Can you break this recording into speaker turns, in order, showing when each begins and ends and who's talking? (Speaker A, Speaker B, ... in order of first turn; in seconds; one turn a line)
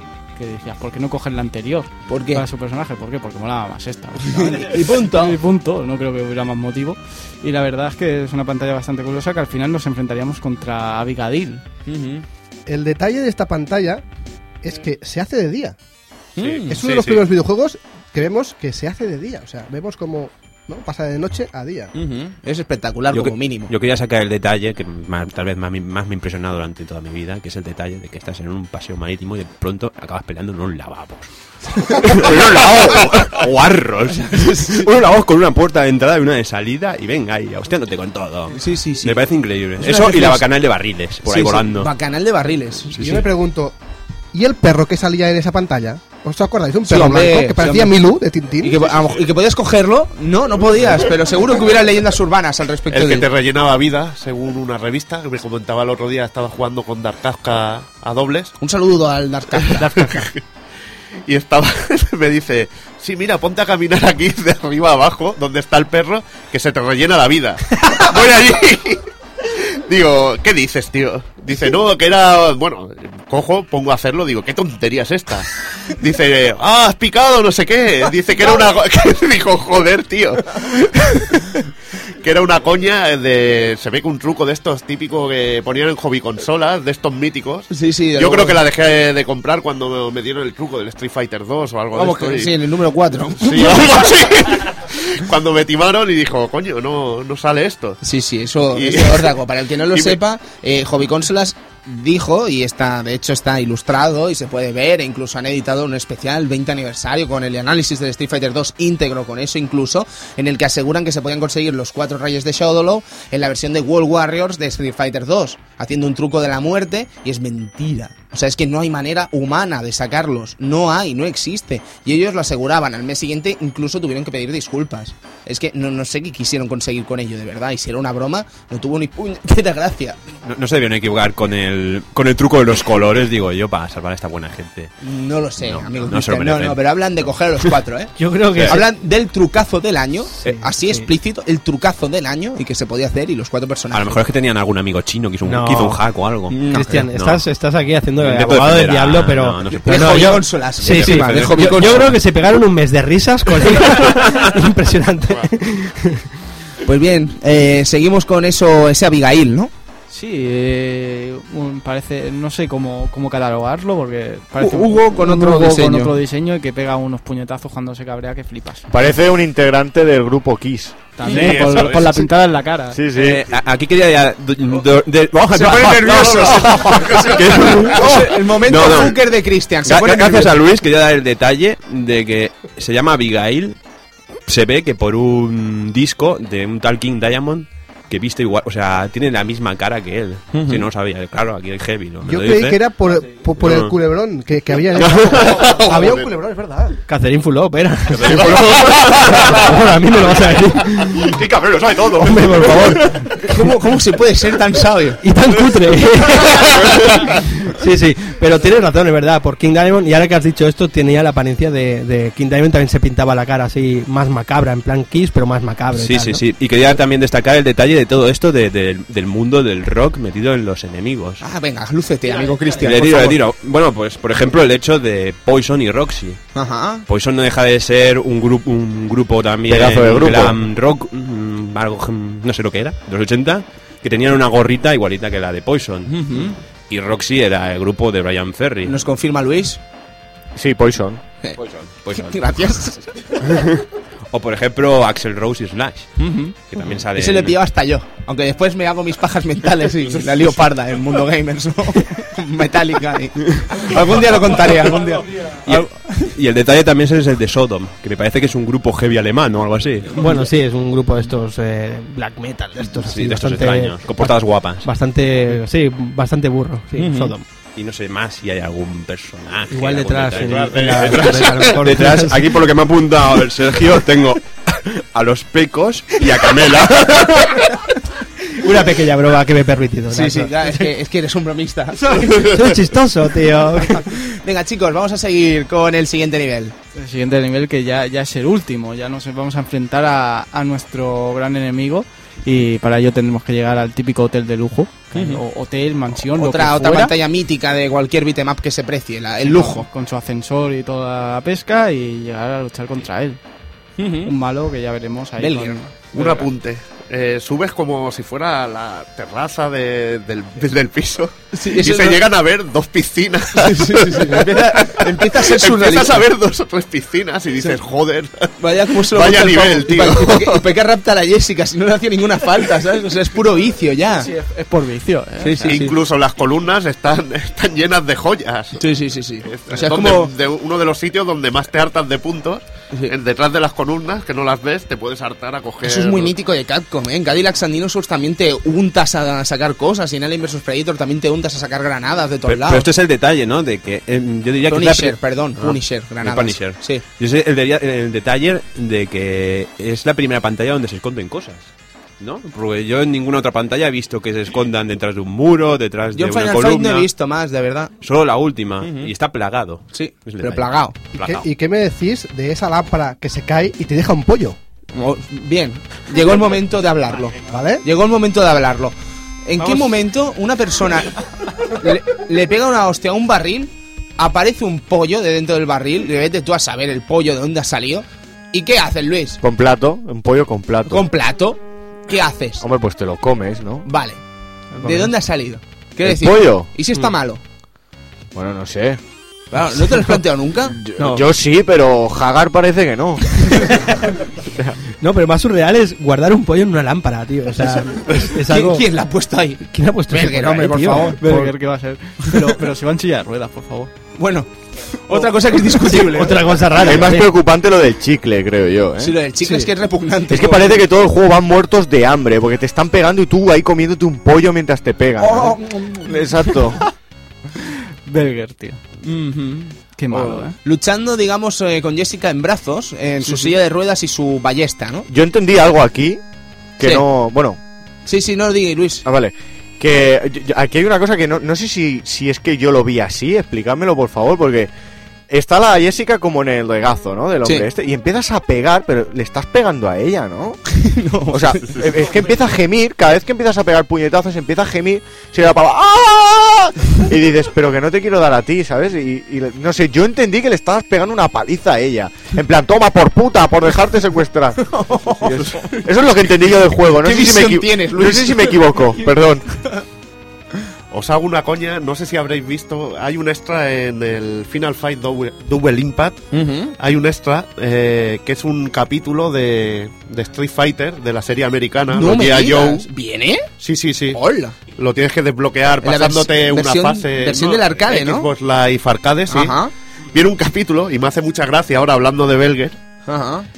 Speaker A: 0.4-11.7
Speaker B: 2.1-2.5
Speaker B: 4.3-5.4
Speaker B: 11.9-12.2
Speaker C: 12.7-14.0
Speaker C: 14.6-15.8
Speaker B: 16.4-16.8
Speaker D: 16.4-17.2
Speaker C: 16.7-21.9
Speaker B: 21.9-23.7
Speaker D: 23.1-41.9
Speaker B: 34.1-34.9
Speaker B: 38.5-39.2
Speaker B: 39.8-40.5
Speaker B: 41.2-43.2
Speaker D: 42.9-43.3
Speaker C: 43.0-43.8
Speaker C: 44.3-48.8
Speaker B: 46.9-48.0
Speaker B: 48.6-53.3
Speaker E: 52.9-58.5
Speaker B: 58.6-60.3
Speaker E: 59.8-60.4
Speaker E: 61.3-81.4
Speaker E: 82.2-92.6
Speaker B: 87.7-88.6
Speaker B: 91.9-94.1
Speaker E: 93.4-98.0
Speaker B: 98.0-130.2
Speaker E: 98.7-99.4
Speaker E: 99.9-100.2
Speaker D: 130.4-134.9
Speaker B: 135.0-138.1
Speaker D: 135.6-136.8
Speaker F: 138.2-138.8
Speaker D: 138.5-138.8
Speaker B: 138.7-144.2
Speaker F: 140.4-141.1
Speaker D: 143.9-147.4
Speaker F: 145.4-156.3
Speaker B: 146.5-146.9
Speaker D: 148.2-152.2
Speaker B: 149.7-152.2
Speaker D: 153.8-154.6
Speaker B: 156.8-159.7
Speaker A: 160.1-168.9
Speaker B: 164.6-166.2
Speaker G: 168.9-171.1
Speaker A: 171.2-173.0
Speaker B: 171.2-171.6
Speaker E: 171.3-172.2
Speaker G: 172.9-173.4
Speaker D: 173.1-179.2
Speaker B: 175.5-180.6
Speaker E: 176.1-177.8
Speaker D: 179.8-183.8
Speaker D: 184.5-192.9
Speaker C: 192.2-197.0
Speaker D: 193.6-193.9
Speaker D: 194.9-195.7
Speaker E: 195.4-196.3
Speaker F: 197.1-201.4
Speaker D: 198.1-203.0
Speaker E: 198.2-198.7
Speaker F: 202.1-203.8
Speaker B: 203.4-205.2
Speaker F: 205.2-216.4
Speaker D: 206.5-207.2
Speaker D: 215.9-221.4
Speaker B: 221.4-223.4
Speaker D: 222.7-226.4
Speaker B: 226.6-227.1
Speaker D: 227.1-238.9
Speaker G: 229.7-230.6
Speaker B: 236.1-236.6
Speaker B: 238.8-239.8
Speaker G: 240.6-241.2
Speaker D: 241.6-247.6
Speaker B: 242.1-243.1
Speaker B: 246.2-246.6
Speaker B: 247.1-256.3
Speaker E: 250.2-250.5
Speaker D: 255.7-260.3
Speaker F: 260.1-267.4
Speaker D: 262.8-264.9
Speaker B: 267.0-267.3
Speaker D: 267.8-277.8
Speaker F: 269.7-272.6
Speaker E: 270.4-271.7
Speaker F: 278.6-280.9
Speaker B: 280.1-282.5
Speaker F: 282.0-284.2
Speaker B: 283.9-286.8
Speaker A: 286.9-297.1
Speaker B: 295.1-295.4
Speaker B: 296.3-299.9
Speaker A: 299.4-303.4
Speaker B: 304.0-304.3
Speaker A: 304.2-306.5
Speaker B: 305.4-305.8
Speaker E: 306.1-320.7
Speaker B: 311.5-312.2
Speaker B: 313.5-316.3
Speaker B: 318.6-324.3
Speaker A: 324.2-325.9
Speaker B: 325.4-325.9
Speaker E: 325.7-328.8
Speaker B: 328.8-330.3
Speaker E: 329.4-336.3
Speaker B: 335.8-342.9
Speaker D: 342.5-357.1
Speaker B: 344.7-347.0
Speaker B: 356.1-357.9
Speaker D: 358.0-361.4
Speaker B: 358.8-359.1
Speaker B: 359.9-360.9
Speaker C: 361.1-364.6
Speaker B: 364.9-368.9
Speaker C: 367.4-367.8
Speaker B: 369.5-379.4
Speaker G: 379.4-381.1
Speaker B: 380.9-382.6
Speaker G: 382.6-383.9
Speaker B: 383.9-384.2
Speaker F: 384.8-385.1
Speaker B: 384.8-387.4
Speaker G: 386.0-387.1
Speaker G: 388.3-389.0
Speaker B: 389.5-390.8
Speaker G: 390.7-393.8
Speaker F: 391.0-391.3
Speaker F: 393.5-394.1
Speaker G: 394.4-394.8
Speaker F: 395.0-398.9
Speaker B: 398.3-401.2
Speaker F: 399.7-401.5
Speaker A: 400.7-403.9
Speaker B: 404.2-406.7
Speaker F: 405.8-407.3
Speaker G: 406.8-409.2
Speaker B: 409.0-410.8
Speaker A: 409.4-409.7
Speaker G: 410.3-416.8
Speaker B: 415.2-416.1
Speaker A: 417.6-418.8
Speaker B: 419.0-425.1
Speaker A: 419.9-420.6
Speaker G: 425.1-426.2
Speaker G: 426.8-427.6
Speaker B: 428.1-429.1
Speaker G: 429.1-434.7
Speaker G: 435.3-440.6
Speaker B: 440.7-441.8
Speaker G: 441.3-459.5
Speaker B: 454.6-455.9
Speaker B: 457.0-459.8
Speaker E: 460.9-466.3
Speaker B: 466.3-466.8
Speaker E: 466.8-472.9
Speaker B: 471.9-473.5
Speaker E: 473.6-479.6
Speaker B: 474.1-474.6
Speaker B: 475.8-478.3
Speaker B: 479.3-479.7
Speaker E: 480.1-482.8
Speaker B: 483.1-483.5